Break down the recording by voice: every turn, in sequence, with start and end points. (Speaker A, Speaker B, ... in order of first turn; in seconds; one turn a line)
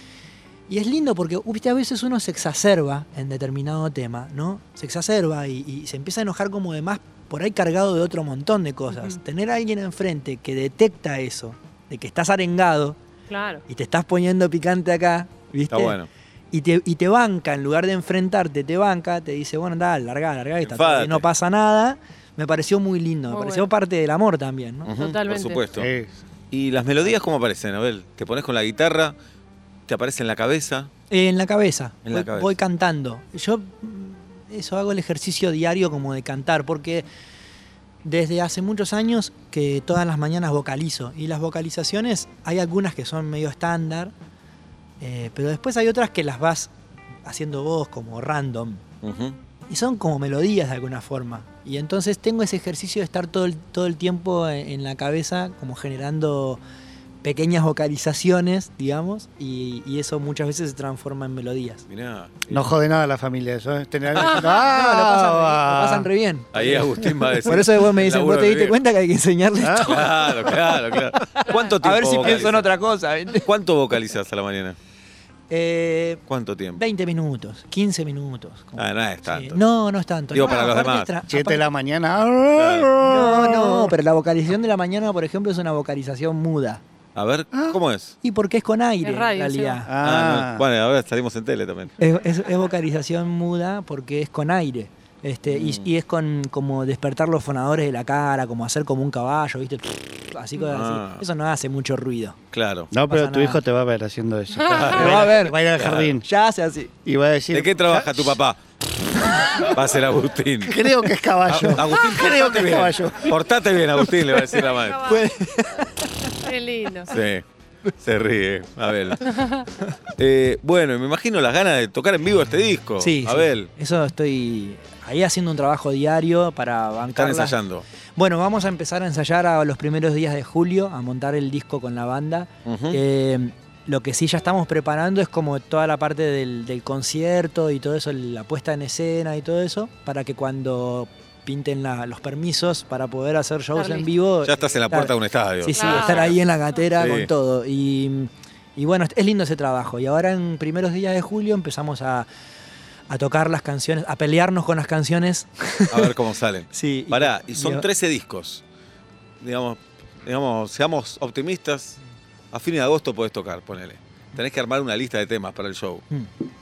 Speaker A: 0.7-13.0
Speaker B: 8.9-9.2
Speaker B: 13.3-13.6
Speaker A: 13.7-16.0
Speaker C: 15.7-16.1
Speaker A: 16.5-24.9
Speaker C: 20.6-21.2
Speaker B: 23.3-23.7
Speaker C: 24.9-25.9
Speaker B: 25.0-25.6
Speaker D: 25.8-26.1
Speaker C: 26.5-29.1
Speaker C: 29.9-30.9
Speaker A: 31.1-37.1
Speaker C: 32.1-32.5
Speaker A: 38.0-44.1
Speaker A: 45.0-46.7
Speaker A: 47.2-48.8
Speaker C: 49.0-49.4
Speaker A: 49.7-56.6
Speaker A: 57.2-61.9
Speaker C: 61.9-62.7
Speaker D: 62.5-66.1
Speaker A: 64.2-73.5
Speaker C: 66.5-68.8
Speaker D: 69.6-70.3
Speaker C: 69.8-72.7
Speaker C: 73.4-74.8
Speaker A: 75.5-76.2
Speaker C: 76.3-76.8
Speaker A: 76.8-81.6
Speaker C: 78.8-79.6
Speaker C: 80.3-81.1
Speaker D: 81.3-83.9
Speaker C: 82.6-82.9
Speaker A: 83.0-86.8
Speaker C: 87.2-88.2
Speaker A: 88.2-89.9
Speaker B: 89.0-89.8
Speaker D: 89.9-90.6
Speaker C: 90.0-92.0
Speaker A: 92.0-102.4
Speaker C: 95.5-95.9
Speaker C: 100.6-101.2
Speaker C: 102.5-102.9
Speaker D: 102.9-106.2
Speaker A: 103.0-103.6
Speaker C: 104.7-106.1
Speaker A: 105.0-105.6
Speaker A: 106.2-106.9
Speaker D: 107.0-108.4
Speaker C: 107.5-108.6
Speaker C: 109.6-110.8
Speaker D: 110.7-113.4
Speaker A: 111.5-111.8
Speaker C: 111.6-115.1
Speaker B: 114.7-115.2
Speaker A: 115.0-116.3
Speaker B: 116.4-117.2
Speaker C: 117.1-117.4
Speaker C: 118.0-119.4
Speaker B: 119.3-119.7
Speaker C: 120.2-123.7
Speaker A: 123.0-127.6
Speaker C: 127.2-127.8
Speaker A: 128.2-152.3
Speaker C: 132.7-133.0
Speaker B: 143.8-144.1
Speaker C: 144.5-146.4
Speaker B: 145.8-146.3
Speaker C: 147.0-147.3
Speaker A: 153.1-156.1
Speaker C: 155.9-158.6
Speaker A: 156.7-157.8
Speaker C: 159.4-162.0
Speaker C: 162.5-166.1